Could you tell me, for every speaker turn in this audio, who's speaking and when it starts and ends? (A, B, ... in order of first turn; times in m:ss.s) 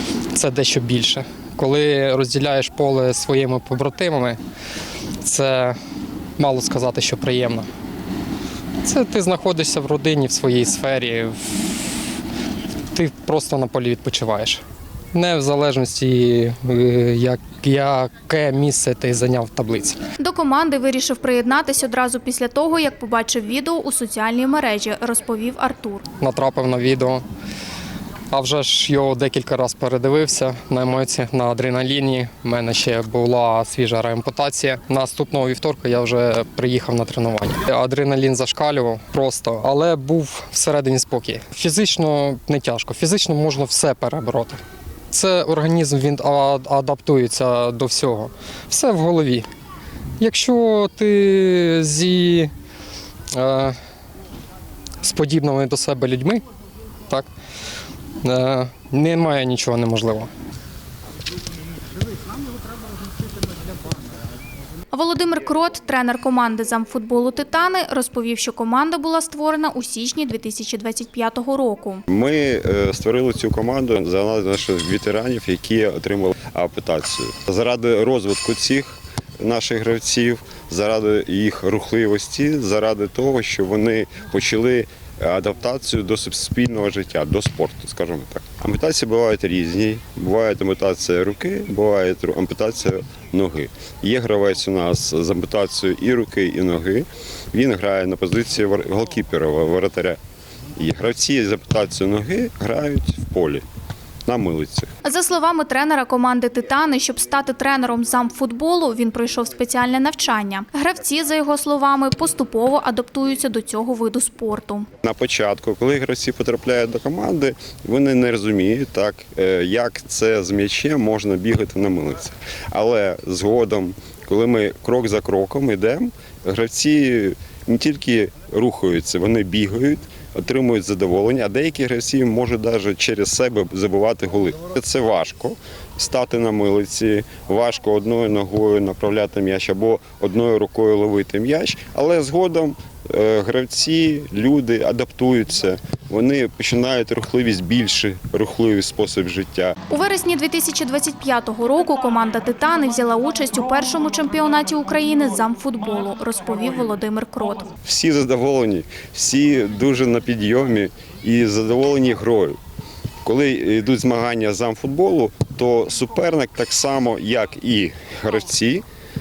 0:00.3-0:04.4 A
0:05.2-0:05.8 A
0:06.4-0:07.7 A
0:08.8-0:11.4 A
0:12.9-0:14.6 A
0:15.1-0:20.0 A
0:20.2-0:26.0 B
0:26.2-0:27.2 A
0:28.3-0:44.6 A
0:45.1-0:49.5 A
0:50.2-0:52.5 A
0:53.3-0:53.8 A
0:55.0-0:56.4 A
0:58.2-1:00.3 A
1:04.9-1:12.0 B
1:12.1-1:40.2 C
1:40.8-1:43.6 C
1:44.3-1:44.9 C
1:45.0-1:54.9 B
1:55.0-2:29.8 C
2:29.9-2:37.7 B
2:37.9-2:42.6 C
2:43.2-2:48.8 C